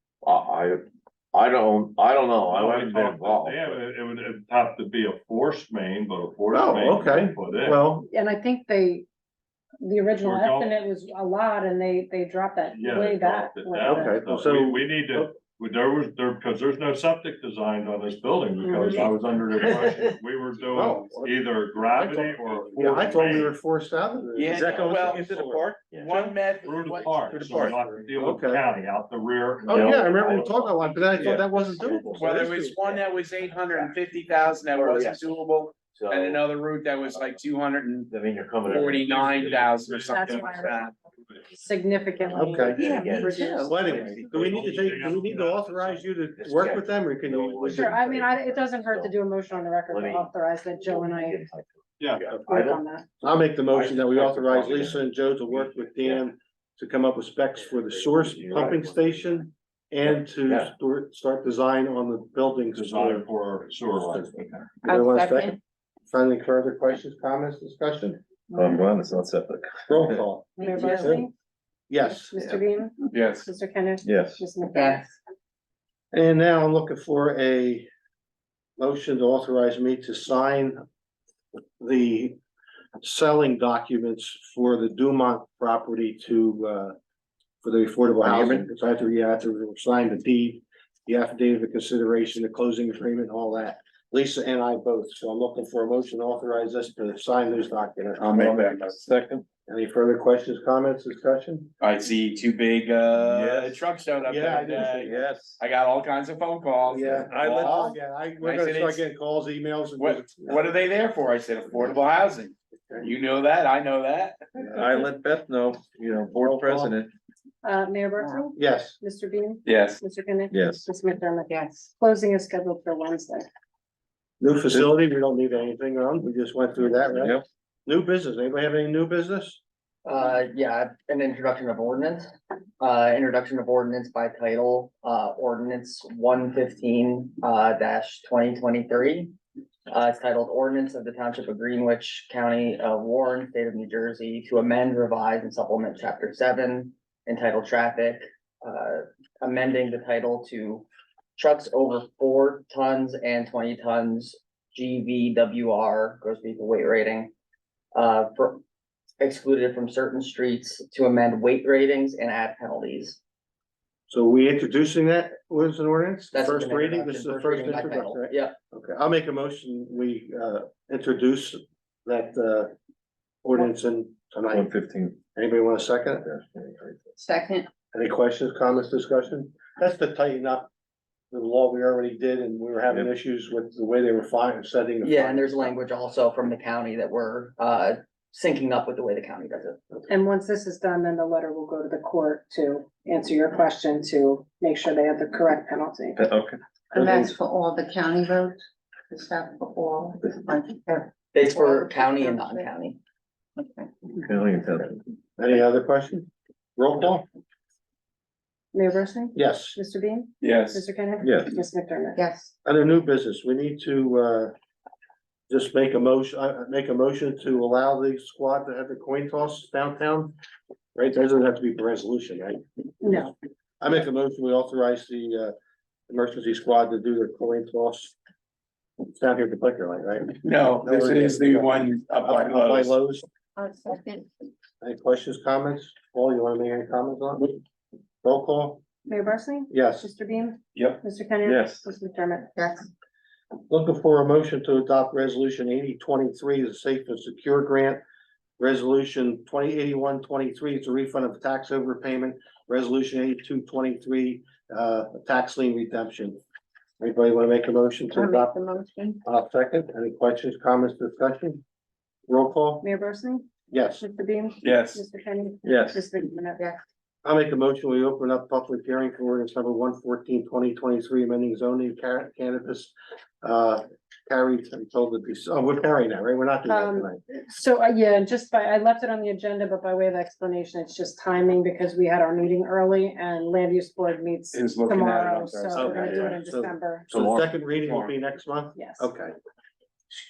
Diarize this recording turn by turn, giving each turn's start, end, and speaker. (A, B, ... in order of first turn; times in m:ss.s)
0:00.2-0:00.8 A
0:01.3-0:02.9 A
0:02.4-0:07.8 B
0:02.6-0:03.8 C
0:06.5-0:08.1 D
0:08.1-0:09.0 E
0:09.8-0:14.2 E
0:10.2-0:10.7 B
0:12.7-0:23.5 B
0:13.8-0:15.4 D
0:18.7-0:19.0 D
0:20.7-0:21.3 D
0:21.8-0:25.2 D
0:24.3-0:27.7 F
0:24.5-0:26.1 C
0:26.6-0:31.4 B
0:27.3-0:27.8 C
0:28.2-0:28.6 D
0:29.7-0:32.7 D
0:29.7-0:30.0 C
0:31.2-0:32.2 C
0:32.2-0:38.1 F
0:32.7-0:35.2 A
0:33.6-0:34.1 G
0:34.9-0:35.3 G
0:35.9-0:36.4 A
0:38.7-0:41.0 F
0:39.0-0:40.6 B
0:40.1-0:40.7 E
0:41.5-0:43.7 E
0:42.3-0:42.9 D
0:42.5-0:44.2 A
0:42.8-0:43.0 F
0:42.8-0:43.8 G
0:43.6-0:48.2 D
0:43.8-0:44.8 F
0:43.8-0:46.2 B
0:46.4-0:49.1 A
0:47.6-0:48.3 G
0:47.6-0:51.4 E
0:49.9-0:50.2 A
0:50.9-0:51.4 G
0:51.3-0:51.6 A
0:52.0-0:52.3 B
0:52.1-0:52.8 A
0:52.3-0:53.1 E
0:52.4-0:52.8 G
0:53.2-1:03.3 D
0:53.7-0:54.5 F
0:58.4-0:59.0 G
1:02.7-1:04.7 B
1:04.8-1:05.6 D
1:04.8-1:05.6 G
1:06.1-1:08.2 D
1:08.5-1:10.2 C
1:09.9-1:11.2 D
1:10.6-1:11.3 E
1:10.6-1:11.2 G
1:11.9-1:12.6 D
1:12.0-1:15.1 E
1:13.1-1:13.5 F
1:14.0-1:14.4 C
1:14.7-1:15.0 G
1:16.1-1:17.9 D
1:18.8-1:20.8 D
1:21.8-1:22.4 D
1:23.0-1:26.9 D
1:27.6-1:38.9 D
1:28.2-1:28.6 C
1:38.2-1:39.0 F
1:38.8-1:39.4 C
1:39.7-1:41.7 D
1:41.8-1:49.0 F
1:43.2-1:43.8 C
1:44.3-1:45.2 D
1:45.0-1:45.6 C
1:46.9-1:50.7 D
1:47.1-1:47.9 C
1:50.0-1:54.4 F
1:52.7-1:53.1 D
1:54.6-1:55.0 D
1:54.7-1:57.1 C
1:56.4-1:56.9 D
1:57.6-2:03.4 E
1:58.6-1:59.0 D
1:59.6-2:00.0 F
2:00.5-2:00.9 C
2:01.5-2:01.9 G
2:04.4-2:09.6 D
2:07.0-2:07.4 C
2:10.0-2:12.3 H
2:12.8-2:19.3 H
2:19.9-2:30.8 H
2:31.4-2:37.3 H
2:37.9-2:38.6 H
2:39.2-2:43.2 H
2:44.1-2:52.7 D
2:46.3-2:48.6 H
2:53.4-2:54.7 D
2:54.5-2:55.2 C
2:55.3-2:56.3 D
2:56.2-2:57.1 C
2:57.2-2:57.7 G
2:57.9-3:00.7 D
3:01.3-3:05.7 D
3:05.0-3:09.8 H
3:10.1-3:16.2 E
3:16.2-3:16.6 C
3:16.9-3:22.7 G
3:21.3-3:23.0 H
3:23.6-3:23.9 G
3:24.2-3:25.0 C
3:25.4-3:27.2 D
3:28.7-3:32.2 E
3:29.3-3:29.8 D
3:30.4-3:30.8 F
3:31.2-3:31.5 C
3:32.2-3:32.5 G
3:32.6-3:34.5 D
3:35.5-3:40.3 D
3:40.9-3:45.5 D
3:43.0-3:43.3 E
3:46.1-3:48.1 D
3:49.1-3:53.3 D
3:50.4-3:53.0 F
3:53.6-3:54.3 G
3:54.8-3:57.6 D
3:58.2-3:58.8 D
3:59.0-4:02.5 E
3:59.7-4:00.1 D
4:01.4-4:01.8 C
4:02.5-4:02.9 G
4:03.7-4:08.0 D
4:08.6-4:16.4 D
4:17.0-4:18.6 D
4:18.1-4:19.2 G
4:19.2-4:21.6 D
4:22.3-4:22.9 D
4:22.8-4:23.5 E
4:23.7-4:24.0 D
4:24.0-4:26.6 E
4:24.6-4:25.0 F
4:25.6-4:26.0 C
4:27.2-4:37.2 D
4:36.7-4:47.1 E
4:44.5-4:46.3 F
4:45.7-4:49.3 D
4:48.7-4:49.1 E